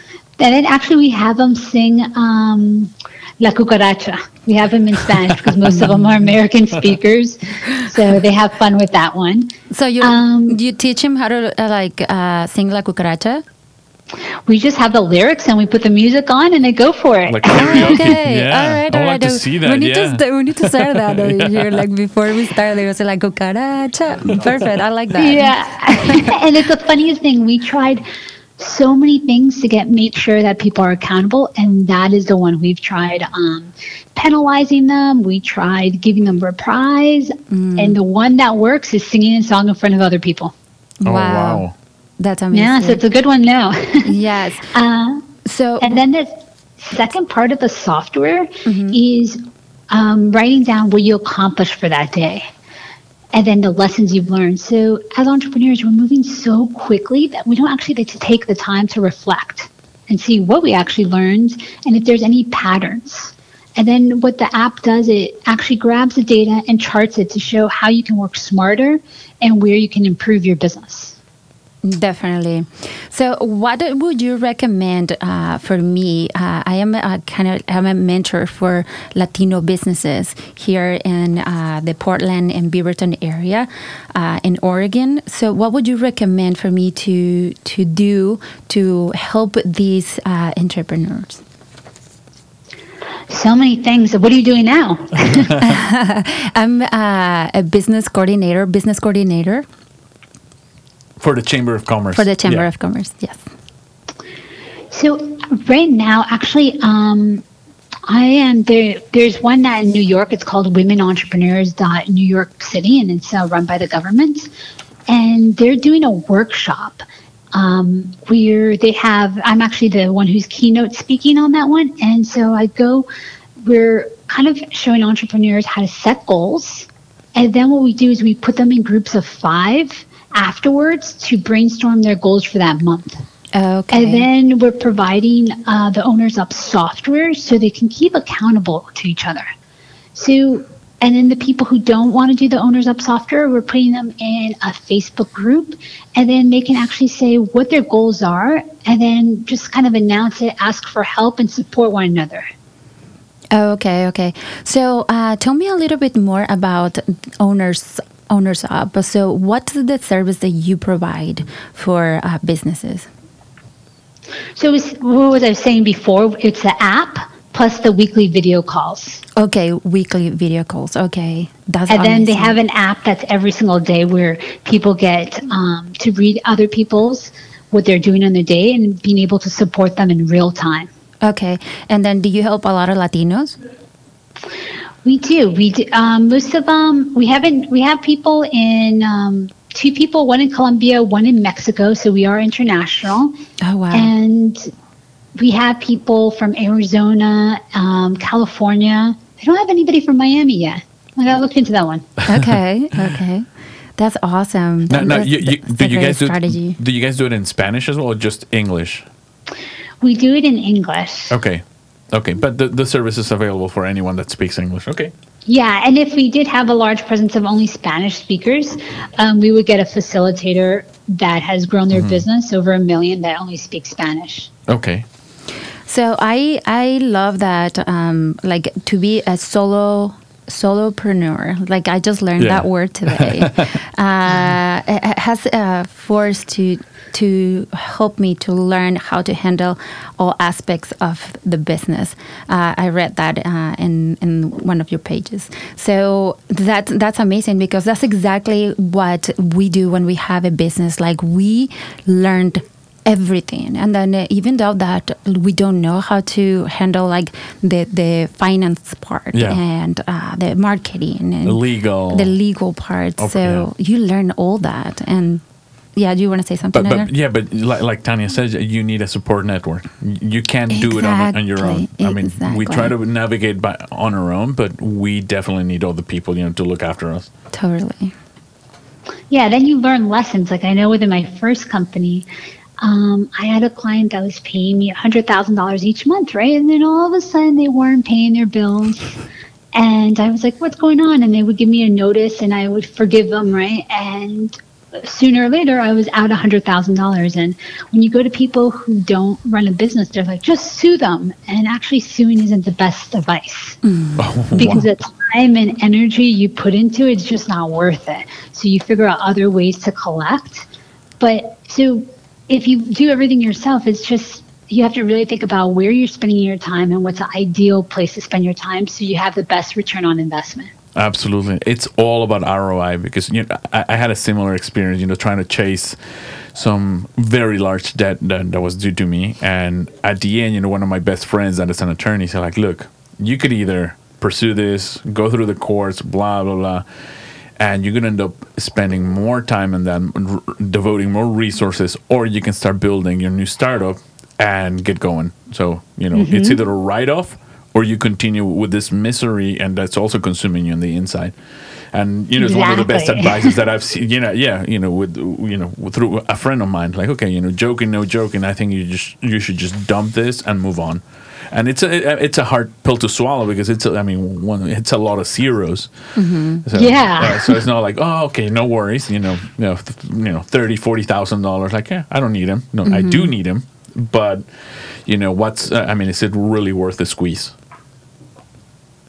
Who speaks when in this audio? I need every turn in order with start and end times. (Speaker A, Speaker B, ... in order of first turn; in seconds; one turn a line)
Speaker A: 0.4-10.6
Speaker B: 9.7-13.4
Speaker A: 14.5-18.1
Speaker C: 17.3-21.9
Speaker B: 17.6-26.4
Speaker A: 25.2-28.1
Speaker A: 28.6-40.5
Speaker B: 37.5-38.0
Speaker B: 41.0-41.7
Speaker C: 41.0-41.7
Speaker B: 42.2-43.0
Speaker A: 42.5-44.1
Speaker B: 44.0-44.7
Speaker A: 44.7-45.3
Speaker B: 45.5-45.9
Speaker A: 45.8-52.5
Speaker B: 48.7-49.0
Speaker A: 53.3-71.2
Speaker B: 71.8-91.4
Speaker A: 93.3-95.6
Speaker B: 95.6-99.7
Speaker C: 101.2-102.7
Speaker B: 102.1-103.4
Speaker A: 104.9-107.4
Speaker A: 108.1-114.5
Speaker A: 115.1-123.1
Speaker A: 123.6-133.2
Speaker B: 133.5-134.3
Speaker A: 133.9-139.5
Speaker A: 140.2-152.5
Speaker B: 153.5-163.1
Speaker A: 164.6-169.2
Speaker B: 169.4-172.6
Speaker A: 171.9-180.9
Speaker B: 181.2-183.6
Speaker A: 185.0-193.3
Speaker B: 193.6-194.1
Speaker A: 193.9-194.7
Speaker A: 195.4-202.1
Speaker C: 202.2-202.6
Speaker B: 202.3-206.8
Speaker C: 204.9-209.1
Speaker A: 210.0-211.4
Speaker C: 211.3-215.1
Speaker A: 215.5-224.5
Speaker C: 221.9-222.3
Speaker C: 224.7-225.1
Speaker B: 225.9-265.4
Speaker C: 232.4-233.7
Speaker C: 259.3-259.6
Speaker C: 261.4-262.4
Speaker C: 263.2-263.7
Speaker B: 266.0-267.1
Speaker C: 266.7-277.3
Speaker B: 270.7-272.9
Speaker B: 277.5-278.1
Speaker A: 279.3-282.3
Speaker A: 282.8-289.2
Speaker A: 289.7-303.8
Speaker B: 303.8-304.9
Speaker C: 304.2-304.9
Speaker A: 304.6-310.7
Speaker A: 311.2-320.7
Speaker C: 320.9-336.9
Speaker C: 337.6-351.4
Speaker A: 346.1-346.6
Speaker C: 351.9-365.9
Speaker A: 352.4-353.6
Speaker B: 366.1-366.6
Speaker C: 366.6-377.6
Speaker A: 366.7-367.6
Speaker B: 372.9-373.3